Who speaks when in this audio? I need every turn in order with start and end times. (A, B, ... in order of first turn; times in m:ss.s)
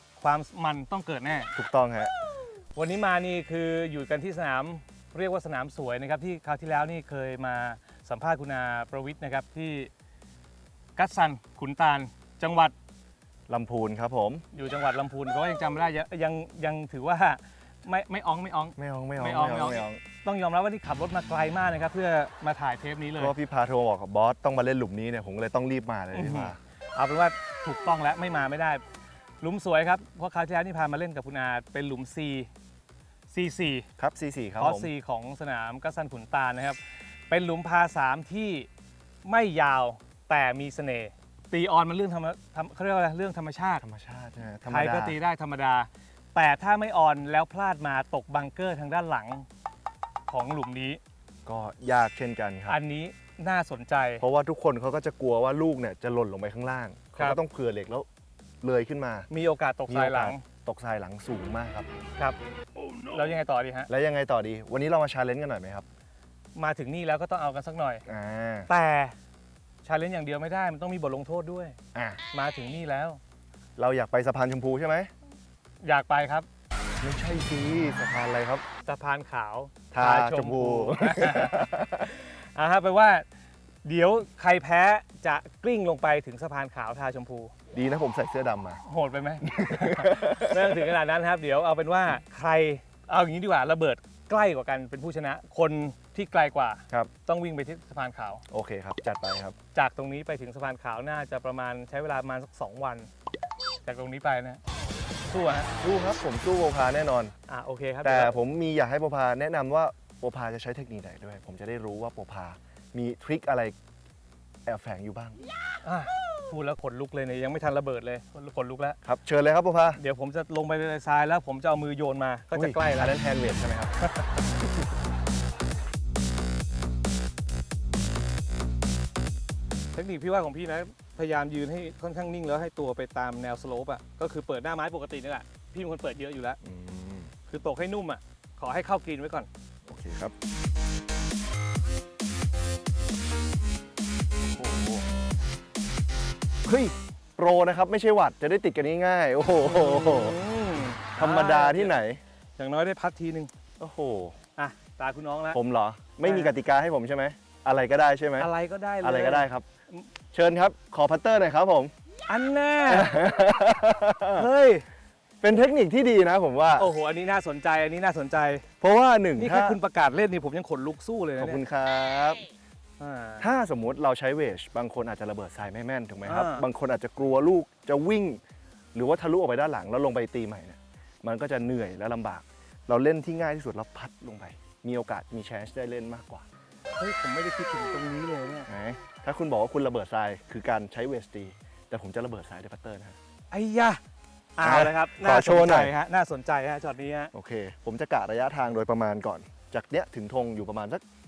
0:00.2-0:01.5 A
0:01.6-0:02.1 B
0:02.8-0:09.9 A
0:11.0-0:12.7 A
0:13.5-0:14.4 B
0:14.5-0:23.3 A
0:18.8-0:20.0 B
0:23.2-0:26.6 B
0:26.1-0:28.8 A
0:29.4-0:32.5 A
0:33.3-0:33.9 A
0:34.0-0:34.9 B
0:34.6-0:38.7 A
0:39.2-0:43.8 A
0:43.8-0:45.2 B
0:44.7-0:49.5 A
0:50.3-0:51.0 A
0:51.5-0:52.8 B
0:52.7-0:54.2 A
0:54.2-0:58.1 B
0:58.6-0:59.3 B
0:59.3-1:00.4 A
0:59.9-1:01.9 B
1:03.1-1:03.9 A
1:03.9-1:05.9 B
1:06.6-1:08.0 A
1:08.1-1:08.7 B
1:08.7-1:09.1 A
1:09.8-1:11.8 A
1:12.0-1:12.2 B
1:12.3-1:13.2 A
1:13.8-1:15.1 B
1:15.8-1:16.5 A
1:17.0-1:18.6 B
1:18.8-1:23.2 A
1:19.9-1:22.1 B
1:23.8-1:27.5 A
1:27.7-1:28.8 B
1:28.8-1:38.4 A
1:29.4-1:30.8 B
1:38.5-1:39.6 B
1:39.7-1:43.1 A
1:43.8-1:44.6 A
1:45.3-1:45.7 A
1:45.8-1:47.3 B
1:47.5-1:48.4 A
1:48.0-1:53.8 B
1:54.7-1:55.4 B
1:55.8-1:59.0 A
1:59.0-2:00.0 B
2:00.0-2:03.2 A
2:02.5-2:03.9 B
2:09.9-2:16.6 A
2:16.6-2:17.3 B
2:17.5-2:19.5 A
2:19.9-2:20.3 B
2:24.4-2:25.1 B
2:26.6-2:30.4 B
2:29.6-2:32.0 A
2:31.2-2:32.2 B
2:32.6-2:33.5 A
2:33.8-2:34.4 B
2:34.6-2:35.6 A
2:35.5-2:38.5 B
2:36.2-2:36.5 A
2:38.4-2:40.1 A
2:39.0-2:39.7 B
2:40.3-2:41.9 B
2:42.3-2:43.3 A
2:42.9-2:44.5 B
2:44.3-2:44.8 A
2:45.4-2:46.9 B
2:46.8-2:48.6 A
2:48.8-2:49.8 B
2:49.4-2:51.6 A
2:51.4-2:52.5 B
2:53.0-2:53.5 A
2:53.4-2:58.4 B
2:56.2-2:56.7 A
2:58.9-3:06.4 B
3:07.0-3:08.7 A
3:08.7-3:13.2 B
3:13.5-3:14.0 A
3:14.6-3:17.3 A
3:14.6-3:15.9 B
3:17.3-3:21.0 B